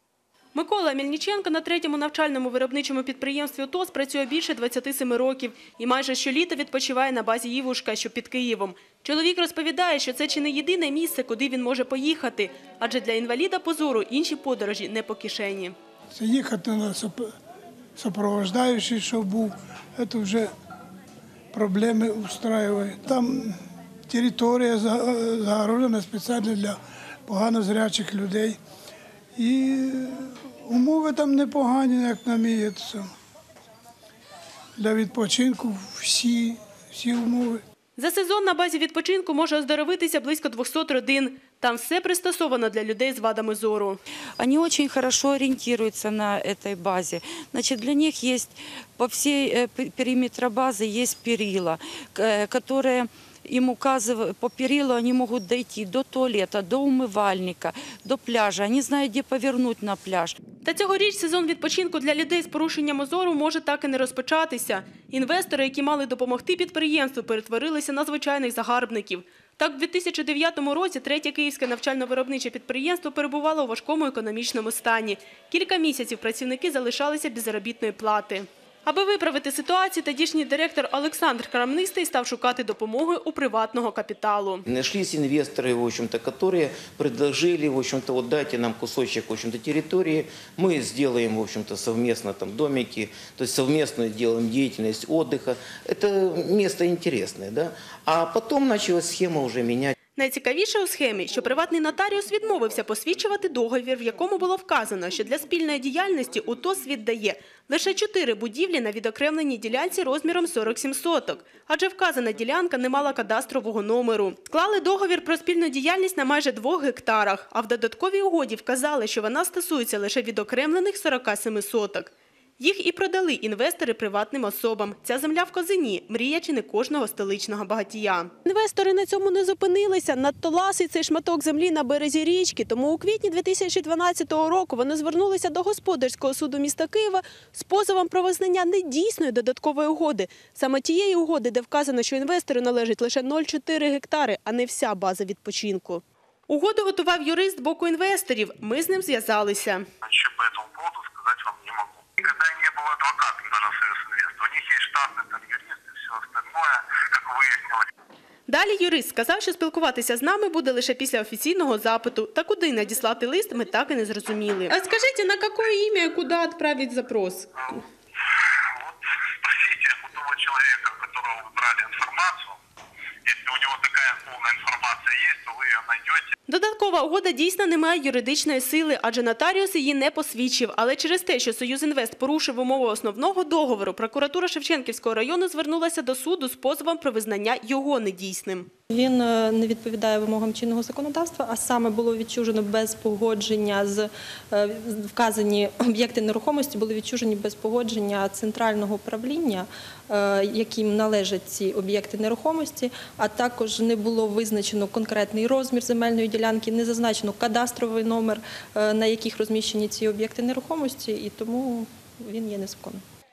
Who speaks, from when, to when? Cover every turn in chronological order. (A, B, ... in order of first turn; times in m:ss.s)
0:00.6-0:15.7 A
0:16.1-0:17.3 B
0:18.0-0:20.5 B
0:21.5-0:23.6 B
0:24.1-0:28.6 B
0:29.4-0:33.1 B
0:34.8-0:37.6 B
0:38.0-0:44.0 A
0:44.4-1:00.4 C
1:00.6-1:24.6 A
1:24.7-1:39.9 D
1:40.2-2:29.9 A
2:30.2-2:31.9 E
2:32.4-2:35.7 E
2:36.4-2:37.6 E
2:38.5-2:47.5 A
2:49.7-2:52.5 E
2:53.3-2:56.2 E
2:56.5-3:08.7 A
3:08.9-3:33.0 F